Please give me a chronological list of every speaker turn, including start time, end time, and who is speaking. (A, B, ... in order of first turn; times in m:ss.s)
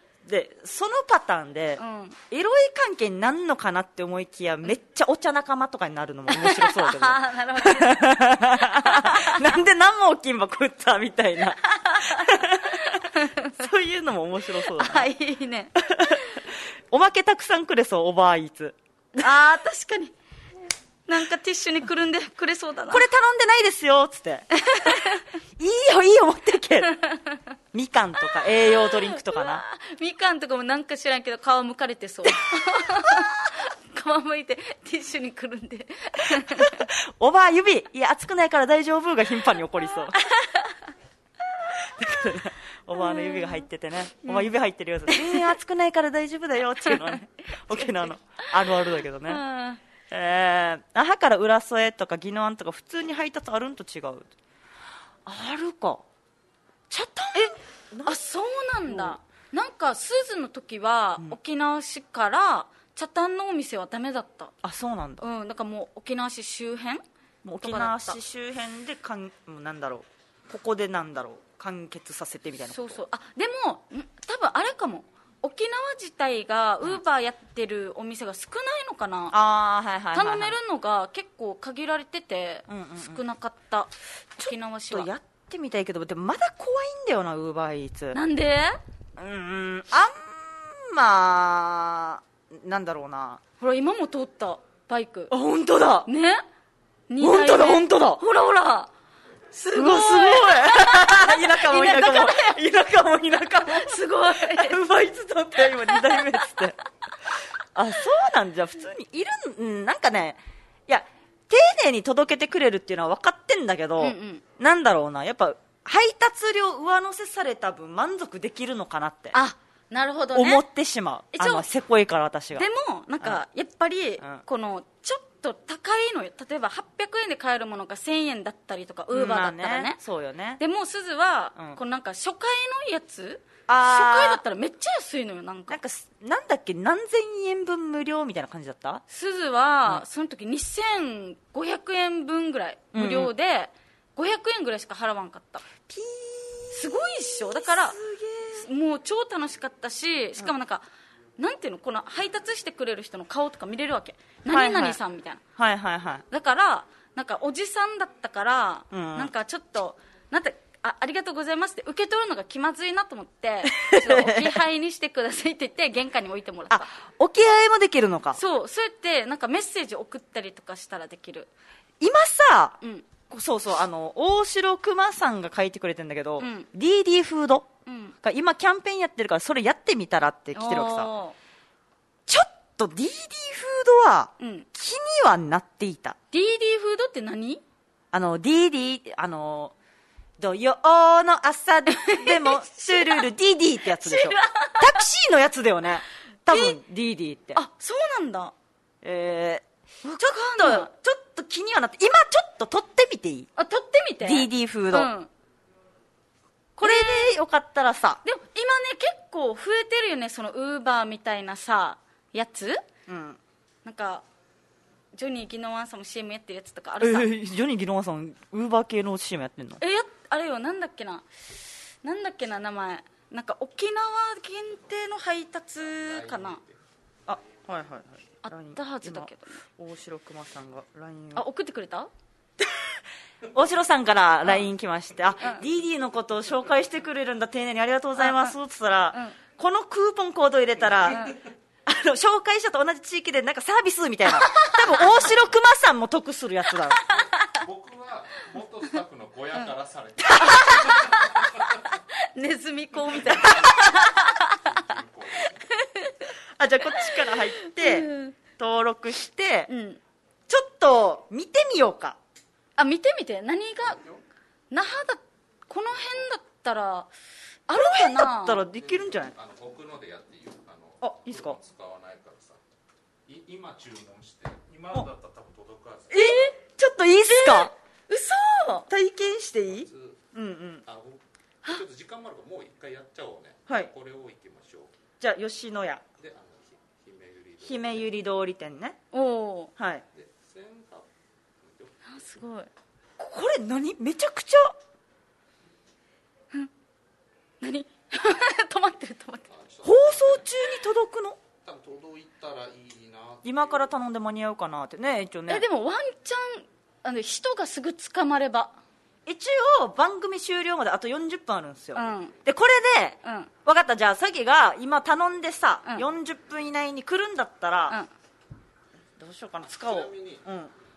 0:00.2-0:15.1 A
0:01.8-0:02.2 B
0:06.3-0:09.4 B
0:11.6-0:13.6 B
0:14.7-0:16.2 B
0:15.8-0:19.2 A
0:19.2-0:20.1 B
0:21.1-0:23.1 B
0:22.9-0:27.0 A
0:24.6-0:25.2 B
0:27.7-0:29.6 A
0:28.7-0:36.9 B
0:36.3-0:40.2 A
0:40.3-0:40.7 B
0:41.7-0:49.4 A
0:43.0-0:43.6 B
0:44.2-0:44.5 B
0:45.1-0:45.5 B
0:47.7-0:48.1 B
0:49.3-0:49.8 B
0:50.1-0:54.3 A
0:55.2-0:56.0 A
0:56.9-0:58.2 A
0:58.1-1:04.5 B
0:58.9-0:59.2 A
1:04.6-1:05.2 A
1:05.2-1:07.0 B
1:07.4-1:13.0 A
1:07.6-1:08.2 B
1:12.7-1:19.4 B
1:19.3-1:20.6 A
1:20.1-1:25.1 B
1:22.7-1:23.2 A
1:24.4-1:28.2 A
1:28.1-1:28.8 B
1:29.2-1:33.4 A
1:33.6-1:35.3 B
1:35.3-1:36.1 A
1:36.1-1:36.4 B
1:37.1-1:38.9 B
1:37.2-1:38.2 A
1:39.5-1:42.6 B
1:39.7-1:46.8 A
1:43.7-1:44.8 B
1:45.9-1:46.2 B
1:47.8-1:59.4 A
1:54.0-1:54.4 B
1:59.3-2:00.6 B
2:00.3-2:02.7 A
2:01.3-2:01.6 B
2:02.6-2:10.0 B
2:09.1-2:10.6 A
2:10.6-2:15.8 B
2:11.6-2:11.8 A
2:13.7-2:14.4 A
2:15.7-2:19.0 A
2:19.1-2:25.6 B
2:22.9-2:23.3 A
2:25.9-2:28.7 A
2:26.7-2:28.0 B
2:28.6-2:30.9 B
2:31.4-2:35.4 B
2:34.5-2:35.0 A
2:35.6-2:36.2 A
2:36.3-2:46.9 B
2:38.9-2:39.3 A
2:43.6-2:44.6 A
2:46.7-2:48.4 A
2:48.4-2:51.5 B
2:52.0-2:52.8 A
2:52.8-2:53.1 B
2:53.3-2:57.7 A
2:56.4-2:56.7 B
2:57.9-2:58.2 B
2:58.2-3:01.1 A
3:00.5-3:01.4 B
3:02.3-3:06.2 A
3:04.4-3:04.7 B
3:06.3-3:07.6 B
3:08.1-3:09.7 A
3:10.4-3:17.6 A
3:11.9-3:13.3 B
3:13.9-3:15.0 B
3:16.5-3:16.8 B
3:17.5-3:18.5 B
3:19.0-3:23.5 A
3:20.0-3:20.9 B
3:23.6-3:25.3 B
3:24.2-3:25.1 A
3:26.8-3:27.3 B
3:26.8-3:28.2 A
3:28.2-3:32.8 B
3:33.1-3:33.4 A
3:33.8-3:34.2 B
3:35.1-3:37.3 B
3:37.0-3:39.8 A
3:39.8-3:41.3 B
3:42.0-3:46.6 B
3:45.8-3:46.8 C
3:47.3-3:51.4 A
3:48.4-3:49.6 B
3:51.3-3:52.1 B
3:52.6-3:52.9 A
3:53.5-4:07.1 A
3:58.2-3:58.6 B
4:04.4-4:05.1 B
4:07.1-4:12.0 C
4:10.4-4:11.2 B
4:12.3-4:14.6 B
4:13.0-4:15.7 C
4:15.8-4:16.3 B
4:16.6-4:19.7 A
4:17.6-4:18.4 B
4:19.7-4:20.0 B
4:20.5-4:22.2 A
4:22.8-4:24.0 B
4:23.8-4:24.2 C
4:24.7-4:27.1 B
4:27.7-4:28.6 B
4:27.7-4:29.3 A
4:28.7-4:32.6 C
4:31.0-4:31.6 A
4:33.3-4:36.4 C
4:36.1-4:37.7 A
4:36.1-4:36.6 B
4:37.3-4:38.9 B
4:38.9-4:40.8 A
4:39.7-4:40.2 C
4:40.8-4:44.9 C
4:45.2-4:46.0 A
4:46.2-4:48.2 C
4:47.6-4:49.0 A
4:49.1-4:49.7 B
4:49.8-4:50.0 A
4:50.1-4:51.1 C
4:51.6-4:52.4 C
4:52.1-4:52.7 B
4:53.2-4:54.8 A
4:57.6-4:59.5 B
4:59.5-5:00.6 C
4:59.8-5:01.4 A
5:01.6-5:03.9 C
5:03.4-5:05.6 A
5:05.5-5:08.8 B
5:09.3-5:18.0 A
5:12.0-5:12.4 B
5:13.2-5:13.5 B
5:19.2-5:20.7 A
5:19.7-5:20.5 C